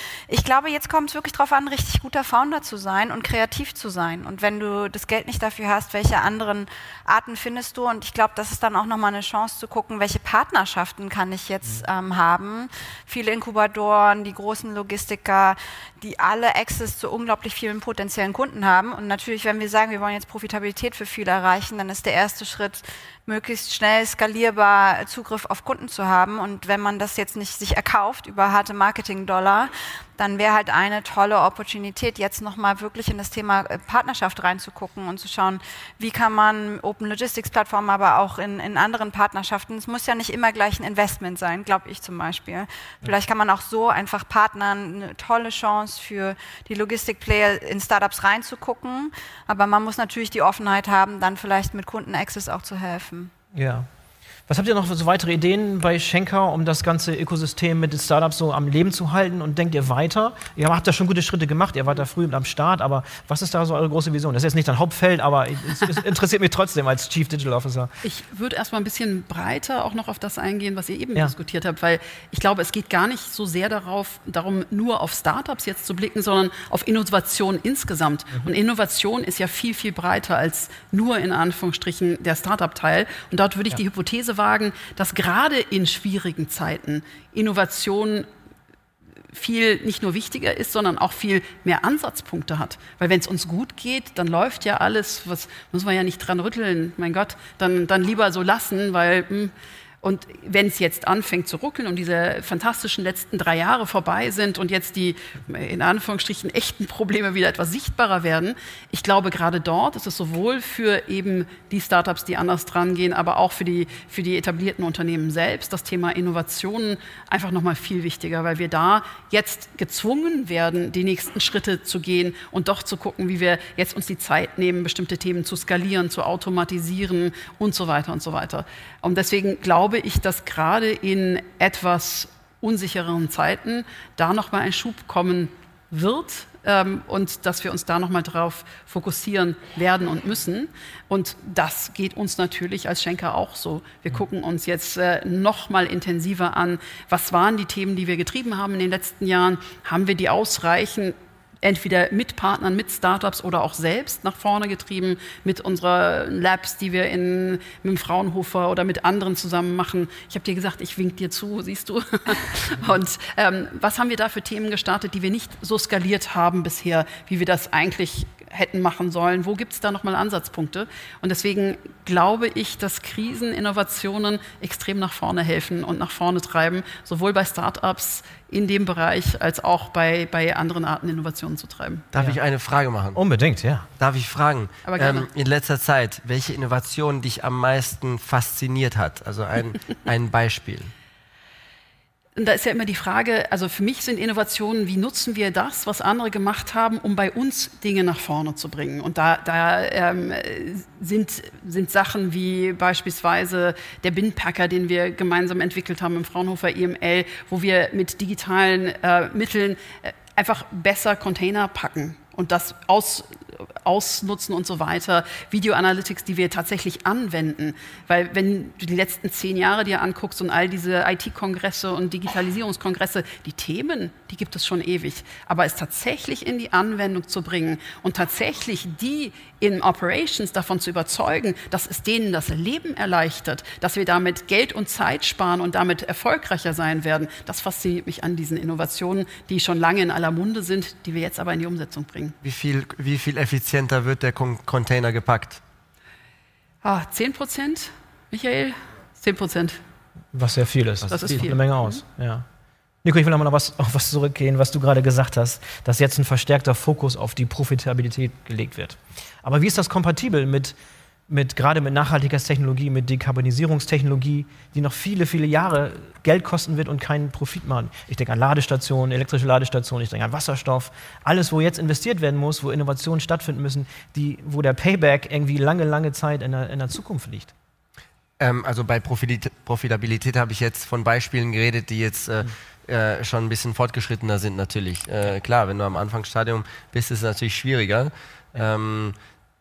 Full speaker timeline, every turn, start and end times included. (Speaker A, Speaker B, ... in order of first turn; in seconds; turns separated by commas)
Speaker A: 0.3-53.3, Speaker B: 53.5-53.9, Speaker B: 54.5-67.9, Speaker C: 68.0-88.3, Speaker C: 89.3-182.1, Speaker D: 182.1-183.2, Speaker B: 183.1-183.9, Speaker D: 184.0-190.9, Speaker C: 184.8-185.3, Speaker C: 192.3-213.3, Speaker C: 213.8-242.3, Speaker D: 242.4-245.6, Speaker C: 246.8-249.8, Speaker B: 250.3-252.4, Speaker C: 251.1-252.0, Speaker D: 251.1-251.4, Speaker B: 253.0-260.7, Speaker B: 261.3-277.5, Speaker D: 278.4-289.1